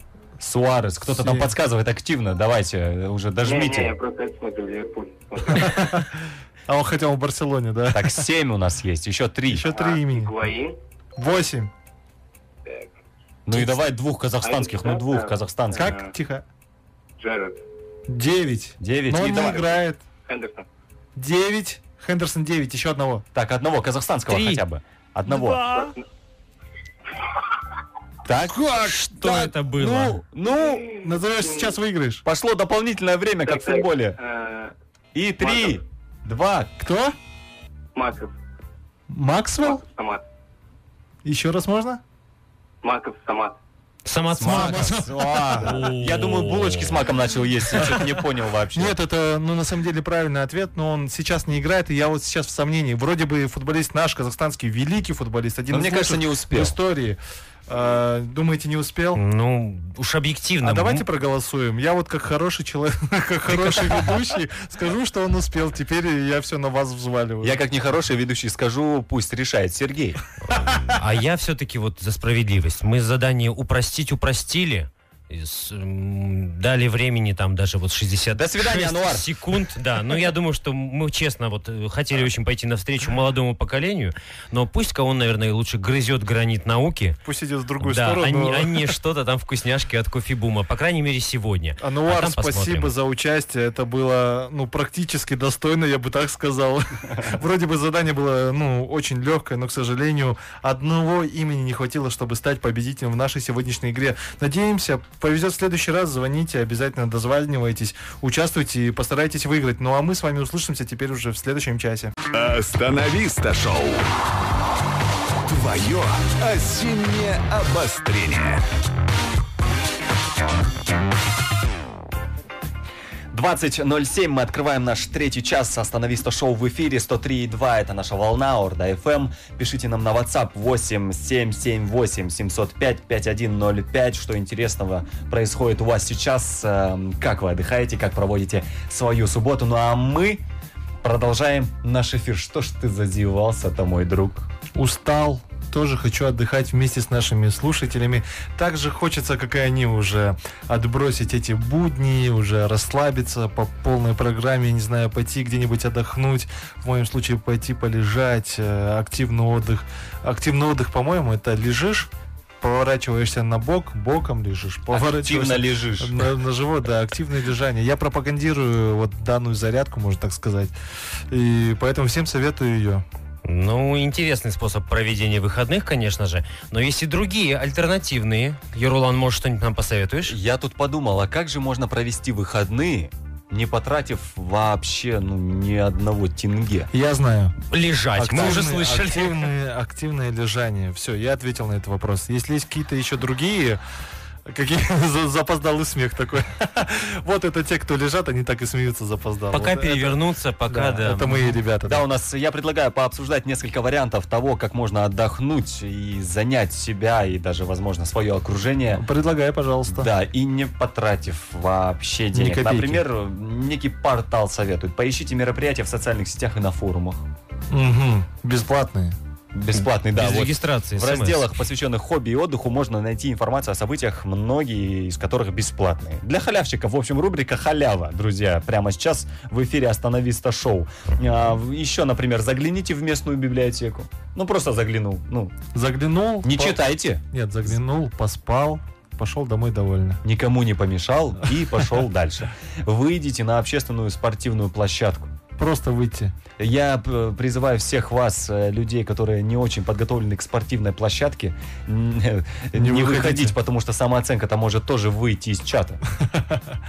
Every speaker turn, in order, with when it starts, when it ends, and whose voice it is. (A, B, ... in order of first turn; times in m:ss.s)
0:00.4-0:03.9 A
0:01.0-0:01.5 B
0:03.4-0:05.9 C
0:05.5-0:06.1 B
0:06.7-0:08.2 B
0:07.9-0:09.7 A
0:09.5-0:10.3 B
0:09.7-0:10.8 C
0:11.2-0:11.7 B
0:13.5-0:15.9 A
0:14.4-0:16.2 C
0:15.7-0:16.4 B
0:17.2-0:17.6 C
0:18.1-0:20.0 B
0:18.8-0:19.8 A
0:20.3-0:20.7 C
0:21.2-0:23.3 B
0:23.4-0:25.7 A
0:24.3-0:24.6 D
0:25.3-0:25.9 D
0:25.6-0:26.0 C
0:28.2-0:30.9 A
0:28.6-0:30.2 D
0:30.6-0:31.7 C
0:31.0-0:32.2 B
0:32.2-0:34.2 A
0:33.4-0:34.7 C
0:35.2-0:36.7 A
0:35.4-0:35.8 C
0:36.8-0:37.2 B
0:38.0-0:38.3 C
0:39.1-0:39.8 B
0:39.6-0:40.2 C
0:41.2-0:42.0 B
0:42.8-0:43.6 C
0:44.0-0:47.1 D
0:44.3-0:49.0 A
0:44.4-0:45.8 B
0:48.7-0:59.2 B
0:55.7-0:56.8 A
0:59.2-1:01.0 D
1:00.6-1:07.6 B
1:07.4-1:10.2 A
1:10.5-1:10.9 B
1:10.5-1:27.2 D
1:18.3-1:19.3 A
1:27.2-1:28.9 B
1:27.8-1:32.9 D
1:31.8-1:52.1 B
1:52.3-1:54.1 E
1:55.4-1:58.6 E
2:03.3-2:20.4 A
2:21.0-2:24.5 A
2:24.7-2:42.1 B
2:42.6-2:50.7 B
2:44.9-2:46.3 A
2:51.3-2:53.0 B
2:53.4-3:00.4 D
3:00.3-3:06.9 A
3:06.9-3:07.6 B
3:07.7-3:09.5 D
3:08.2-3:13.8 B
3:14.5-3:22.0 B
3:19.5-3:21.5 D
3:21.8-3:29.0 A
3:28.9-3:30.1 B
3:29.9-3:37.2 A
3:32.3-3:33.0 B
3:37.7-3:39.2 B
3:39.5-3:55.6 A
3:40.1-3:41.5 D
3:55.7-4:00.2 B
3:56.4-3:57.2 A
4:00.2-4:05.3 A
4:05.6-4:06.3 B
4:06.6-4:16.0 A
4:12.7-4:13.6 B
4:16.3-4:16.7 B